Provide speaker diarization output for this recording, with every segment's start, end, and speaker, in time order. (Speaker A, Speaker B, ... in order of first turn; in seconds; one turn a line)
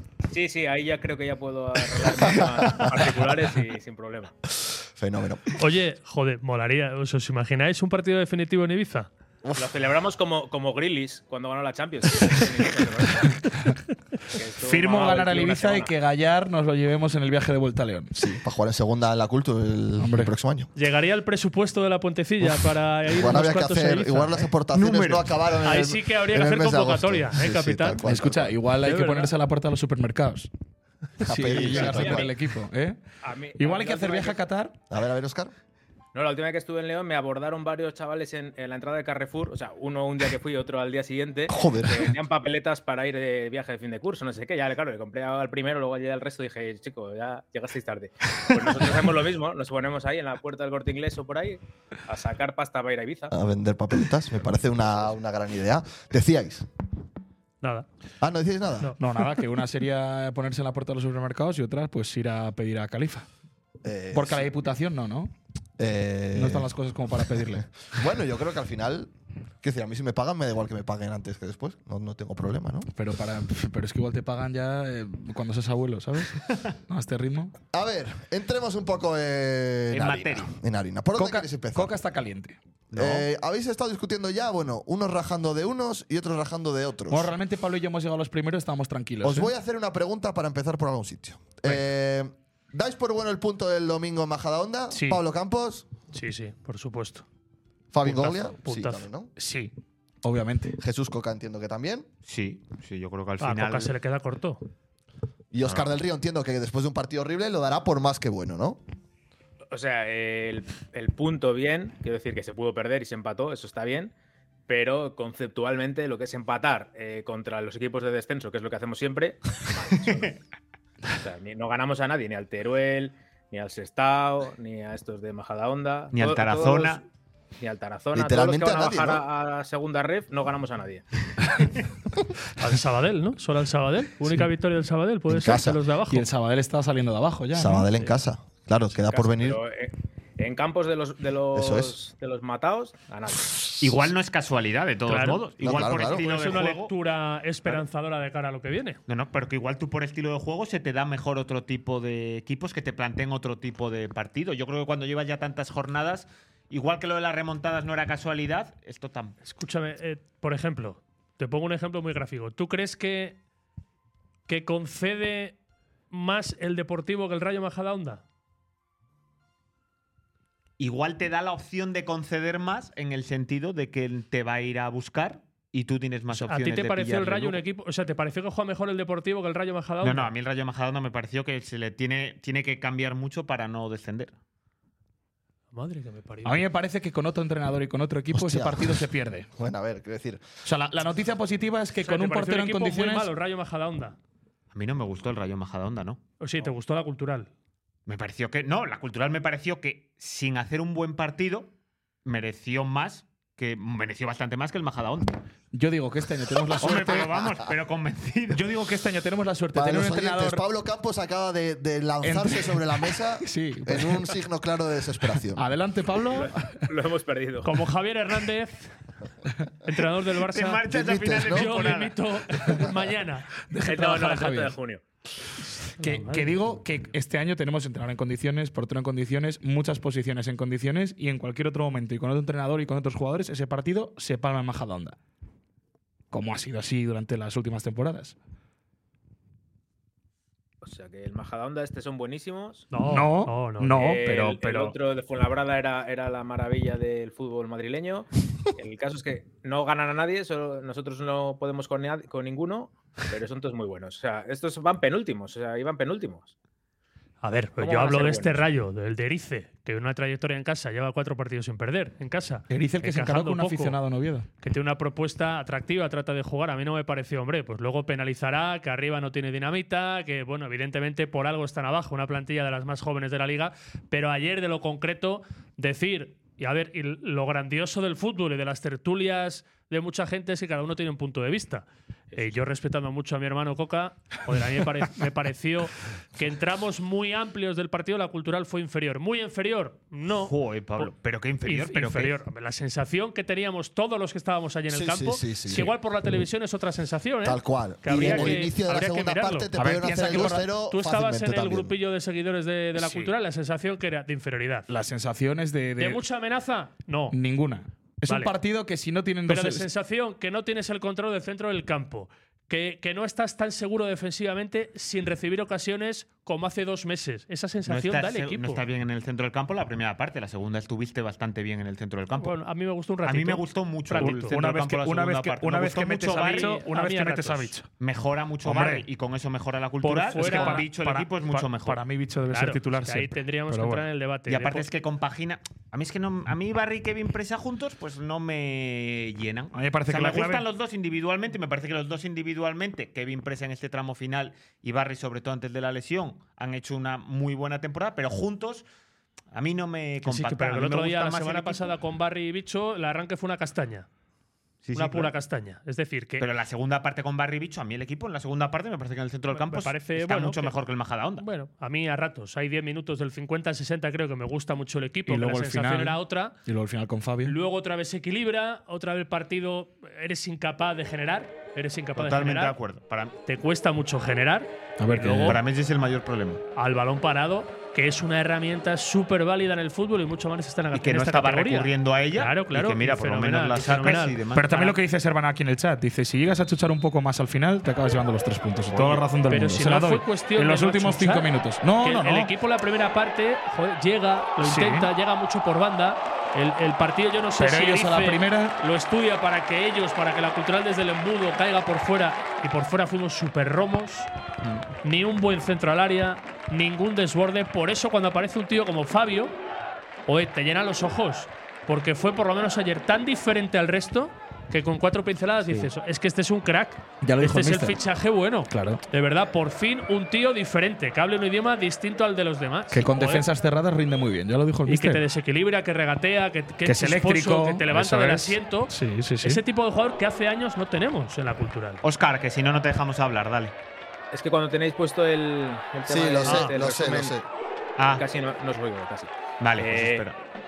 Speaker A: 0.3-4.3
Speaker B: 2.2-3.0
Speaker B: 5.0-5.5
Speaker C: 5.6-9.1
Speaker B: 9.4-9.7
Speaker A: 9.6-13.4
Speaker A: 14.4-15.9
Speaker D: 14.6-18.2
Speaker B: 18.1-20.7
Speaker D: 20.0-20.3
Speaker C: 20.8-24.5
Speaker B: 23.1-28.6
Speaker E: 24.7-25.4
Speaker C: 25.6-28.0
Speaker D: 28.0-30.5
Speaker C: 28.8-29.3
Speaker D: 31.2-33.0
Speaker B: 31.2-32.3
Speaker A: 31.5-32.3
Speaker A: 33.2-34.4
Speaker D: 33.6-34.8
Speaker B: 34.9-35.5
Speaker A: 36.1-53.3
Speaker B: 41.5-42.1
Speaker B: 53.3-56.7
Speaker C: 57.6-57.9
Speaker B: 58.2-58.9
Speaker D: 59.0-63.3
Speaker B: 63.8-64.5
Speaker D: 64.1-65.3
Speaker B: 65.8-66.7
Speaker D: 66.3-67.7
Speaker B: 67.4-72.9
Speaker D: 72.9-77.5
Speaker B: 77.7-81.9
Speaker E: 79.9-80.5
Speaker D: 81.2-83.2
Speaker B: 82.9-87.3
Speaker D: 87.1-89.5
Speaker B: 89.2-95.8
Speaker D: 94.9-95.2
Speaker C: 96.1-97.2
Speaker B: 97.9-99.3
Speaker C: 98.0-99.1
Speaker D: 99.4-99.7
Speaker D: 100.2-100.8
Speaker B: 100.8-102.1
Speaker E: 102.3-103.9
Speaker C: 103.4-104.6
Speaker B: 105.5-108.8
Speaker E: 105.6-106.0
Speaker A: 109.7-114.1
Speaker A: 114.7-120.4
Speaker A: 121.2-127.0
Speaker E: 126.1-127.0
Speaker A: 127.6-131.0
Speaker B: 128.1-129.2
Speaker C: 132.6-136.3
Speaker B: 135.3-135.8
Speaker D: 136.1-137.9
Speaker B: 137.5-139.6
Speaker A: 139.0-143.7
Speaker B: 141.5-141.9
Speaker E: 143.8-146.9
Speaker C: 145.1-149.0
Speaker B: 145.6-146.2
Speaker E: 149.1-159.4
Speaker C: 159.4-163.4
Speaker C: 164.5-165.6
Speaker C: 166.1-168.2
Speaker E: 170.8-177.6
Speaker C: 176.3-180.3
Speaker E: 180.0-184.3
Speaker C: 185.7-186.7
Speaker D: 186.4-189.5
Speaker B: 188.3-190.4
Speaker D: 190.7-193.3
Speaker C: 192.0-194.2
Speaker E: 194.7-196.2
Speaker C: 196.4-197.5
Speaker E: 198.1-201.7
Speaker E: 202.2-205.3
Speaker D: 205.7-207.4
Speaker E: 206.8-208.7
Speaker B: 206.8-207.4
Speaker D: 208.5-210.6
Speaker B: 209.7-215.6
Speaker D: 212.2-212.8
Speaker D: 213.4-214.3
Speaker D: 215.5-216.9
Speaker A: 216.3-217.7
Speaker C: 217.6-218.9
Speaker C: 219.8-220.8
Speaker E: 220.5-222.2
Speaker B: 220.8-221.7
Speaker C: 221.4-223.5
Speaker D: 223.7-224.8
Speaker A: 223.8-225.0
Speaker D: 226.0-235.2
Speaker C: 226.0-226.8
Speaker D: 236.3-238.4
Speaker A: 240.8-242.9
Speaker C: 242.9-244.0
Speaker D: 242.9-245.0
Speaker A: 244.0-256.5
Speaker C: 257.4-264.0
Speaker A: 257.8-258.6
Speaker D: 262.7-264.5
Speaker C: 264.6-291.1
Speaker E: 290.3-292.4
Speaker C: 291.6-304.9
Speaker B: 294.9-295.9
Speaker B: 297.4-301.9
Speaker D: 298.1-298.6
Speaker D: 299.8-300.7
Speaker D: 304.9-306.2
Speaker C: 306.0-307.4
Speaker D: 307.3-309.9
Speaker C: 308.3-308.5
Speaker C: 309.5-318.8
Speaker E: 317.9-322.6
Speaker C: 322.4-324.6
Speaker E: 323.2-326.8
Speaker D: 324.1-327.9
Speaker C: 326.4-327.8
Speaker E: 328.0-332.0
Speaker D: 328.6-329.1
Speaker C: 330.0-330.9
Speaker D: 330.4-334.1
Speaker C: 332.5-334.9
Speaker E: 334.5-348.8
Speaker D: 339.7-340.6
Speaker E: 349.5-351.9
Speaker C: 350.2-354.1
Speaker E: 354.8-355.3
Speaker C: 354.9-356.5
Speaker E: 356.4-361.5
Speaker C: 359.5-360.8
Speaker C: 361.4-366.6
Speaker D: 365.3-367.6
Speaker C: 367.4-372.8
Speaker E: 372.2-373.4
Speaker C: 373.5-375.6
Speaker D: 375.0-375.6
Speaker E: 375.2-376.6
Speaker C: 376.8-385.0
Speaker E: 380.9-384.7
Speaker D: 384.5-392.5
Speaker E: 388.9-389.2
Speaker C: 389.5-404.3
Speaker D: 394.6-395.1
Speaker D: 397.6-398.8
Speaker C: 405.0-409.6
Speaker C: 410.3-423.5
Speaker D: 417.2-418.0
Speaker D: 418.7-419.0
Speaker D: 422.9-425.2
Speaker C: 424.9-432.0
Speaker D: 426.8-429.6
Speaker E: 432.0-433.7
Speaker A: 434.3-437.4
Speaker B: 436.1-437.4
Speaker C: 436.4-436.7
Speaker E: 438.0-438.2
Speaker A: 438.1-440.3
Speaker E: 439.6-440.4